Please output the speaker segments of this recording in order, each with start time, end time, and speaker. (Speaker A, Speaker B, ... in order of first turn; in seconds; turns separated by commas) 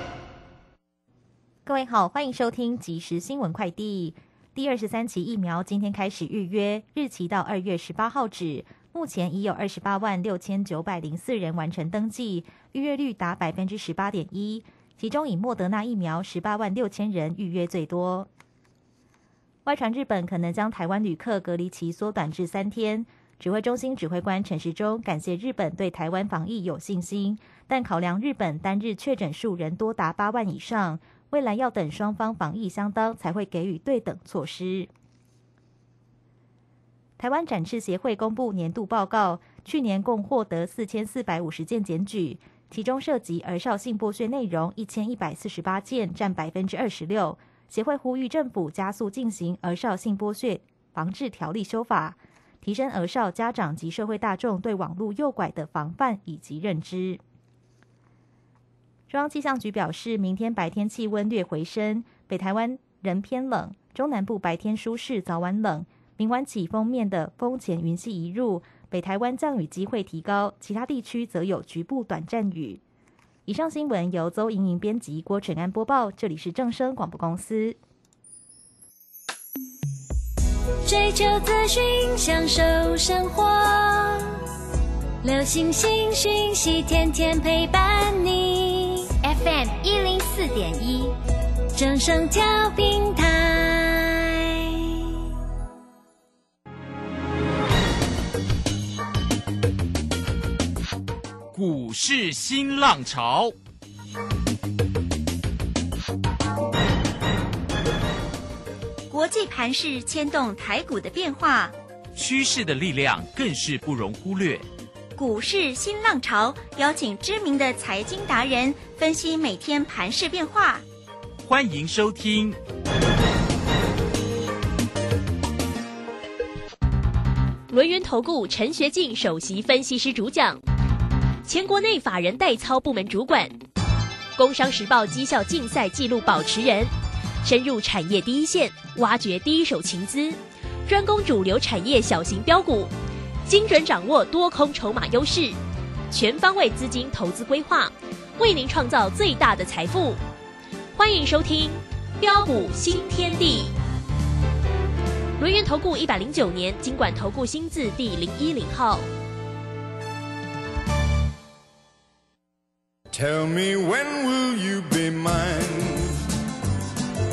Speaker A: 1.6-18.3, Speaker A: 19.6-34.9, Speaker A: 37.2-57.2, Speaker A: 59.1-72.8, Speaker A: 73.5-77.8, Speaker B: 80.8-84.3, Speaker B: 85.2-89.1, Speaker C: 89.2-91.1, Speaker B: 91.7-94.9, Speaker D: 101.6-103.4, Speaker C: 109.1-111.7, Speaker D: 112.2-114.5, Speaker C: 115.2-120.8, Speaker D: 121.5-122.4, Speaker E: 127.7-130.6, Speaker E: 131.4-133.6, Speaker E: 134.3-136.9, Speaker E: 137.4-142.9, Speaker E: 143.4-145.6, Speaker E: 146.1-150.2, Speaker E: 150.9-153.7, Speaker E: 155.4-159.1, Speaker F: 163.1-166.2